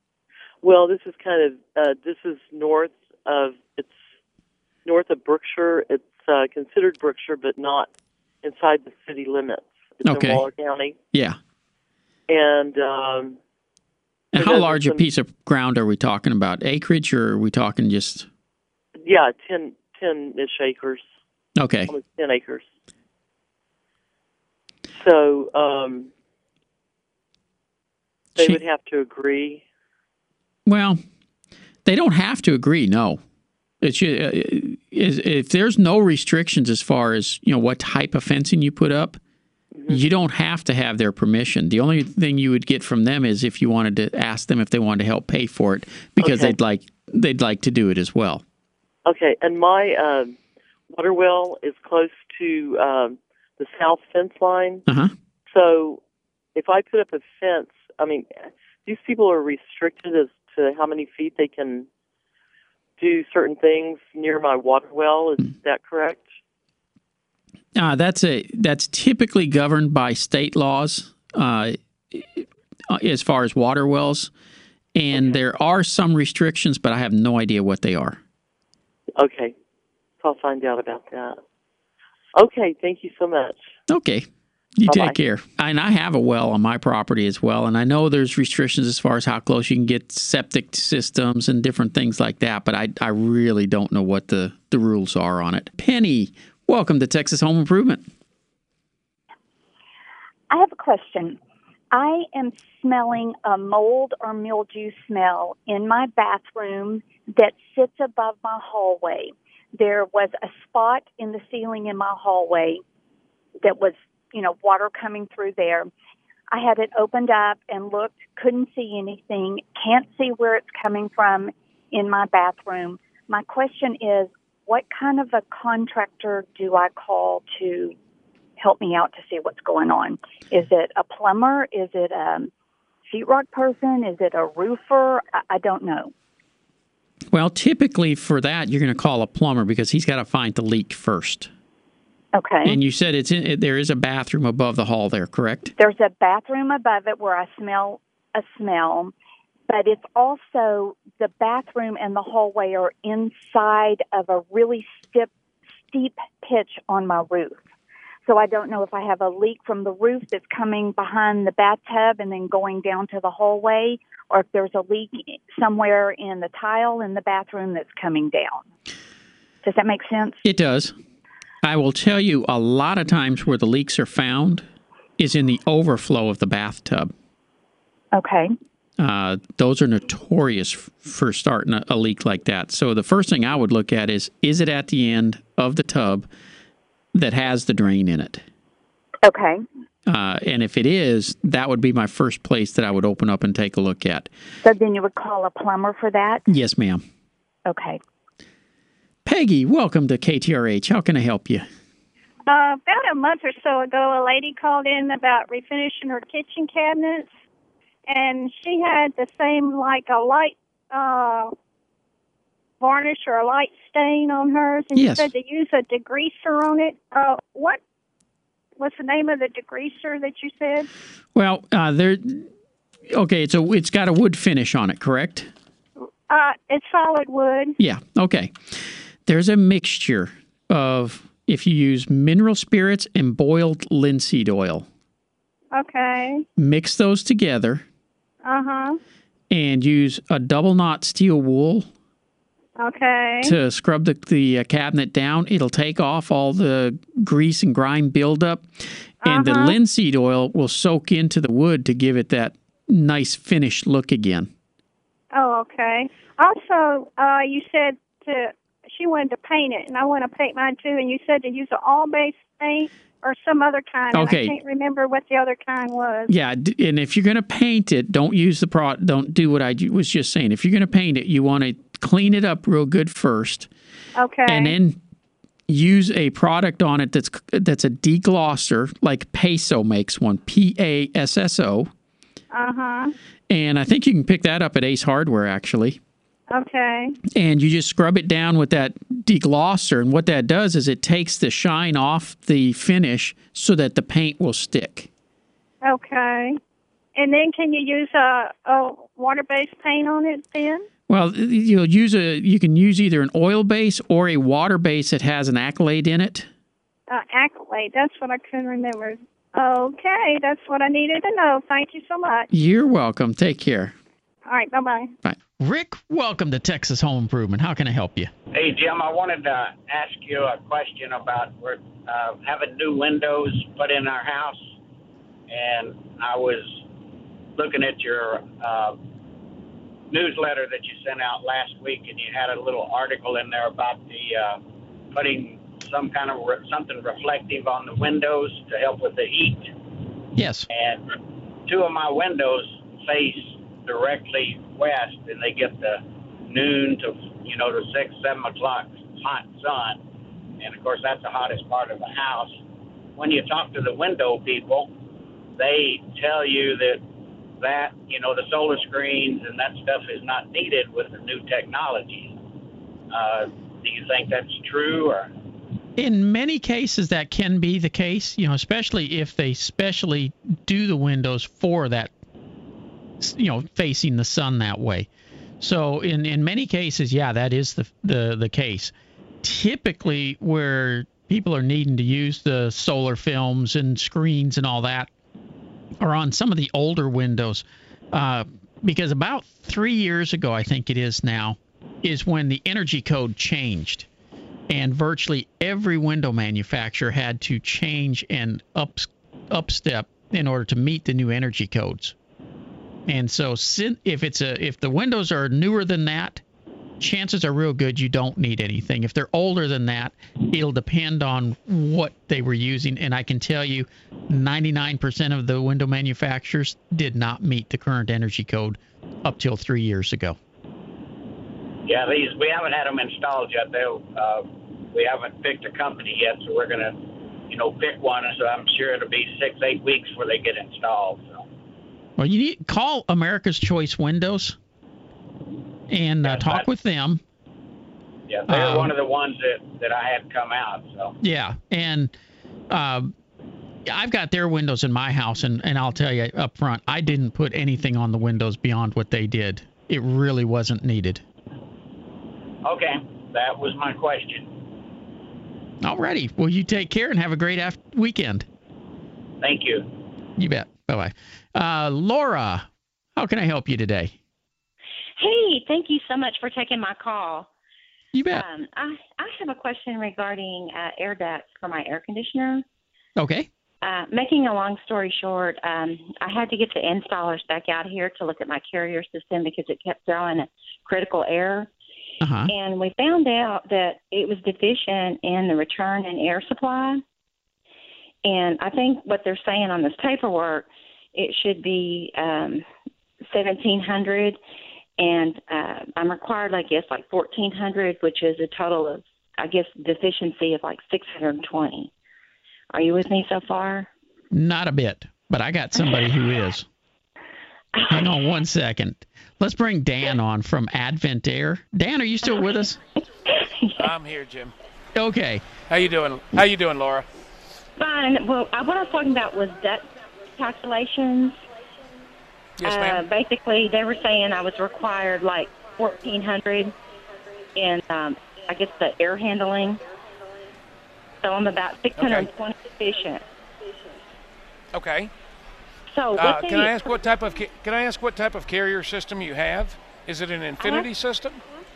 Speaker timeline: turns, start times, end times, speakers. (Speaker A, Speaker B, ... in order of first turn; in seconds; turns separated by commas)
Speaker A: 0.6-4.0, Speaker A: 4.8-7.9, Speaker A: 8.4-10.9, Speaker B: 10.0-10.4, Speaker A: 12.3-13.4, Speaker B: 14.3-18.3, Speaker A: 14.4-15.0, Speaker A: 19.0-21.0, Speaker B: 21.6-21.9, Speaker A: 21.9-22.7, Speaker A: 25.0-26.1, Speaker A: 28.4-29.6, Speaker B: 30.6-31.0, Speaker B: 31.8-33.2, Speaker B: 33.8-39.2, Speaker A: 39.7-40.0, Speaker B: 39.9-48.4, Speaker A: 46.2-46.5, Speaker A: 49.0-50.4, Speaker A: 50.9-54.8, Speaker B: 54.9-55.1, Speaker A: 55.5-56.0, Speaker A: 56.5-61.9, Speaker A: 63.0-66.3, Speaker B: 67.7-74.3, Speaker B: 74.9-78.2, Speaker A: 79.2-79.5, Speaker A: 80.2-81.4, Speaker A: 82.3-83.7, Speaker B: 83.9-98.0, Speaker A: 84.9-85.2, Speaker C: 100.5-101.4, Speaker C: 101.9-112.8, Speaker C: 113.6-115.9, Speaker C: 116.5-127.9, Speaker C: 128.6-132.5, Speaker C: 133.1-136.1, Speaker B: 137.3-141.5, Speaker C: 142.3-142.8, Speaker B: 142.6-145.7, Speaker C: 145.8-149.1, Speaker C: 149.7-155.3, Speaker C: 155.9-157.6, Speaker C: 158.3-168.6, Speaker C: 169.6-170.4, Speaker B: 170.4-170.9, Speaker B: 171.6-177.1, Speaker C: 178.1-178.5, Speaker B: 179.0-186.3, Speaker B: 187.1-188.4, Speaker C: 189.2-189.6, Speaker B: 190.1-194.3, Speaker C: 194.6-196.4, Speaker B: 196.5-197.0, Speaker C: 197.7-198.0, Speaker B: 199.2-201.7, Speaker D: 202.5-207.3, Speaker D: 208.1-211.5, Speaker D: 212.8-217.8, Speaker B: 214.9-215.3, Speaker D: 218.8-220.9, Speaker B: 221.3-222.5, Speaker B: 223.1-225.5, Speaker D: 226.3-227.7, Speaker B: 227.8-234.8, Speaker D: 235.7-236.4, Speaker B: 236.6-237.8, Speaker D: 238.4-239.0, Speaker B: 239.5-241.9, Speaker D: 242.8-243.6, Speaker B: 243.4-248.7, Speaker B: 249.2-254.5, Speaker D: 249.2-249.8, Speaker D: 255.3-266.3, Speaker B: 264.1-264.6, Speaker B: 266.3-273.7, Speaker D: 274.2-274.8, Speaker B: 274.5-275.0, Speaker B: 275.7-281.9, Speaker D: 282.5-283.1, Speaker B: 283.5-286.0, Speaker D: 286.5-287.2, Speaker B: 287.3-295.1, Speaker D: 295.9-296.6, Speaker D: 297.1-300.9, Speaker B: 301.1-306.5, Speaker D: 307.1-312.5, Speaker B: 312.5-313.9, Speaker D: 314.5-315.1, Speaker B: 315.2-318.3, Speaker E: 318.5-324.7, Speaker E: 325.5-326.8, Speaker E: 327.6-329.0, Speaker E: 330.1-339.8, Speaker B: 340.4-340.7, Speaker E: 340.7-350.0, Speaker E: 350.6-352.6, Speaker E: 353.1-354.9, Speaker E: 355.6-357.0, Speaker E: 357.6-362.4, Speaker E: 363.1-365.3, Speaker B: 366.0-372.1, Speaker B: 373.2-375.1, Speaker B: 375.6-385.1, Speaker B: 386.0-394.1, Speaker B: 394.7-402.1, Speaker B: 403.1-406.4, Speaker B: 407.0-420.4, Speaker E: 421.8-431.5, Speaker B: 432.2-434.6, Speaker B: 435.9-437.2, Speaker E: 436.2-436.6, Speaker E: 438.3-441.1, Speaker B: 438.5-438.9, Speaker B: 441.2-442.1, Speaker B: 442.7-443.1, Speaker B: 443.8-451.2, Speaker E: 452.6-454.5, Speaker B: 455.8-458.4, Speaker E: 459.4-459.9, Speaker B: 460.4-464.1, Speaker F: 465.2-467.5, Speaker B: 468.1-468.4, Speaker F: 468.3-472.6, Speaker B: 473.2-473.5, Speaker F: 473.8-481.7, Speaker B: 482.2-482.5, Speaker F: 482.5-487.0, Speaker F: 488.2-492.6, Speaker F: 493.3-494.4, Speaker F: 495.0-501.9, Speaker F: 502.7-503.9, Speaker B: 504.3-506.7, Speaker F: 507.7-508.1, Speaker B: 507.9-512.8, Speaker F: 513.2-513.9, Speaker G: 513.8-514.5, Speaker B: 514.9-515.4, Speaker G: 515.7-517.1, Speaker F: 517.8-521.4, Speaker G: 522.6-523.0, Speaker F: 522.6-526.8, Speaker F: 527.5-529.8, Speaker F: 531.2-533.2, Speaker G: 532.0-532.3, Speaker G: 534.7-535.1, Speaker F: 535.9-536.8, Speaker G: 536.1-541.4, Speaker F: 540.6-540.9